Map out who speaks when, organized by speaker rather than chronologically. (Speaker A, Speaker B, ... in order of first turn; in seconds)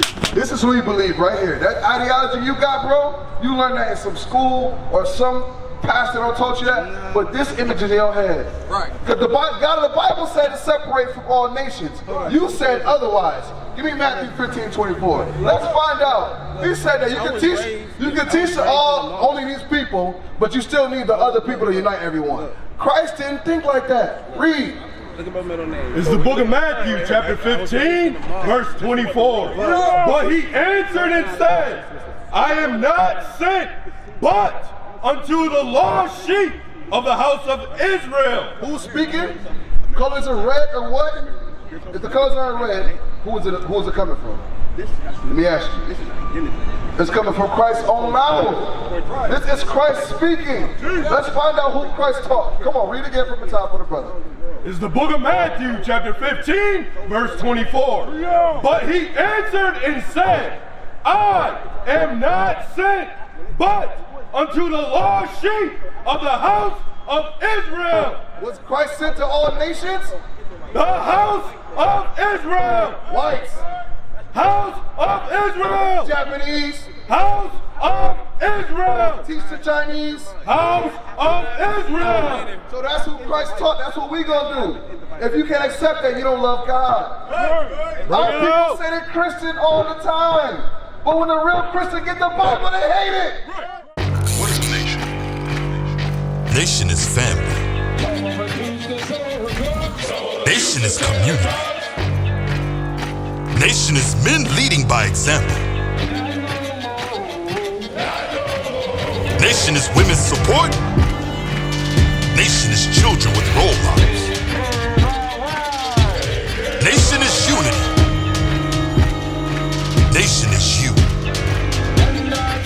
Speaker A: 0.3-8.5, 9.0-24.8, 38.6-41.3, 41.9-44.5, 45.2-46.0, 47.0-54.2, 68.4-70.2, 73.1-73.6, 75.9-76.9, 79.2-80.4, 82.6-87.2, 88.0-93.4
Speaker B: 6.7-7.4, 12.1-12.9, 17.1-19.5, 21.1-22.6, 25.1-28.9, 29.5-30.0
Speaker C: 25.9-38.6, 54.6-68.2, 70.7-73.0, 74.3-76.1, 77.0-79.3, 80.4-82.5, 87.5-88.8
Speaker D: 94.4-95.0, 96.5-97.6, 100.4-101.7, 103.5-105.6, 109.3-110.8, 112.3-114.3, 116.8-117.9, 120.1-121.0